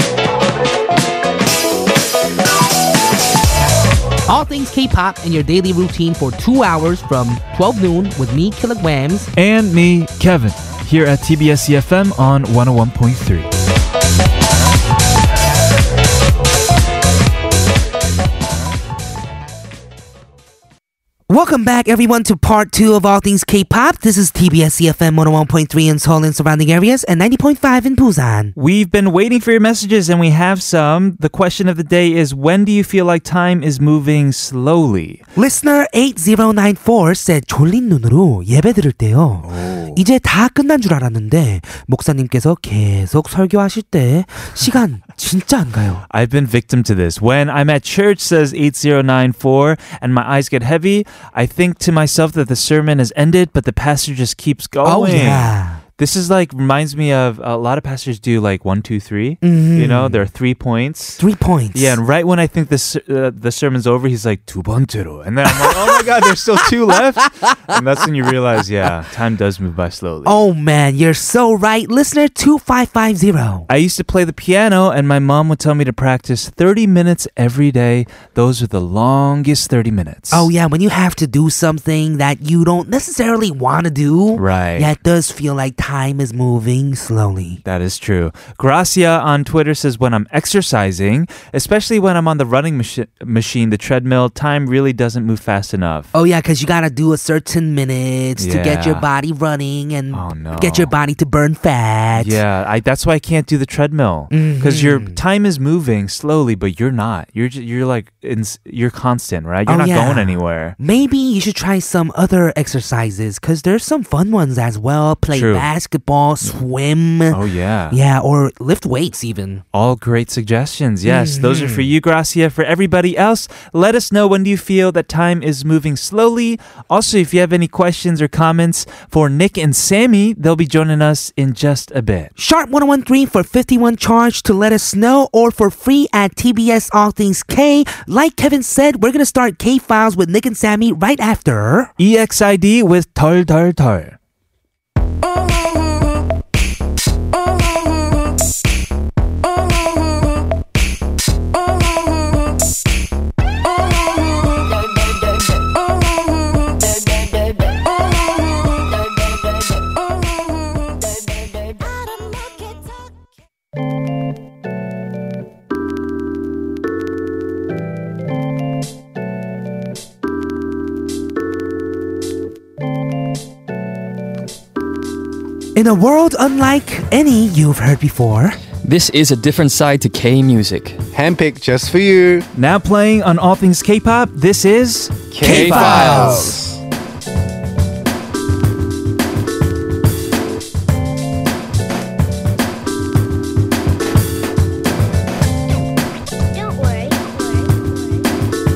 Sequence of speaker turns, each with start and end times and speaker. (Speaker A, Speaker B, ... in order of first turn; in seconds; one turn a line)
Speaker A: 4.3-9.3
Speaker B: 9.3-13.5
Speaker A: 21.3-28.5
Speaker B: 28.6-35.2
Speaker A: 35.4-46.0
Speaker B: 39.4-40.0
Speaker B: 46.1-61.2
Speaker A: 54.8-55.8
Speaker A: 59.4-60.2
Speaker A: 61.2-62.0
Speaker B: 61.7-70.4
Speaker A: 65.5-66.0
Speaker A: 70.2-73.7
Speaker B: 73.7-80.5
Speaker A: 80.3-87.6
Speaker B: 84.3-84.9
Speaker B: 87.6-96.1
Speaker A: 96.1-102.4
Speaker B: 98.4-99.0
Speaker B: 100.1-100.9
Speaker B: 102.2-110.8
Speaker A: 104.3-105.2
Speaker A: 109.7-117.4
Speaker B: 115.3-115.7
Speaker B: 117.3-118.0
Speaker A: 117.9-119.6
Speaker B: 119.7-132.3
Speaker A: 121.0-121.9
Speaker A: 132.4-141.9
Speaker B: 142.0-144.2
Speaker C: 161.5-163.3
Speaker A: 175.8-178.6
Speaker D: 178.8-181.0
Speaker E: 181.1-182.5
Speaker B: 182.5-186.2
Speaker E: 185.3-186.8
Speaker D: 185.4-186.6
Speaker A: 185.4-186.5
Speaker C: 196.5-198.2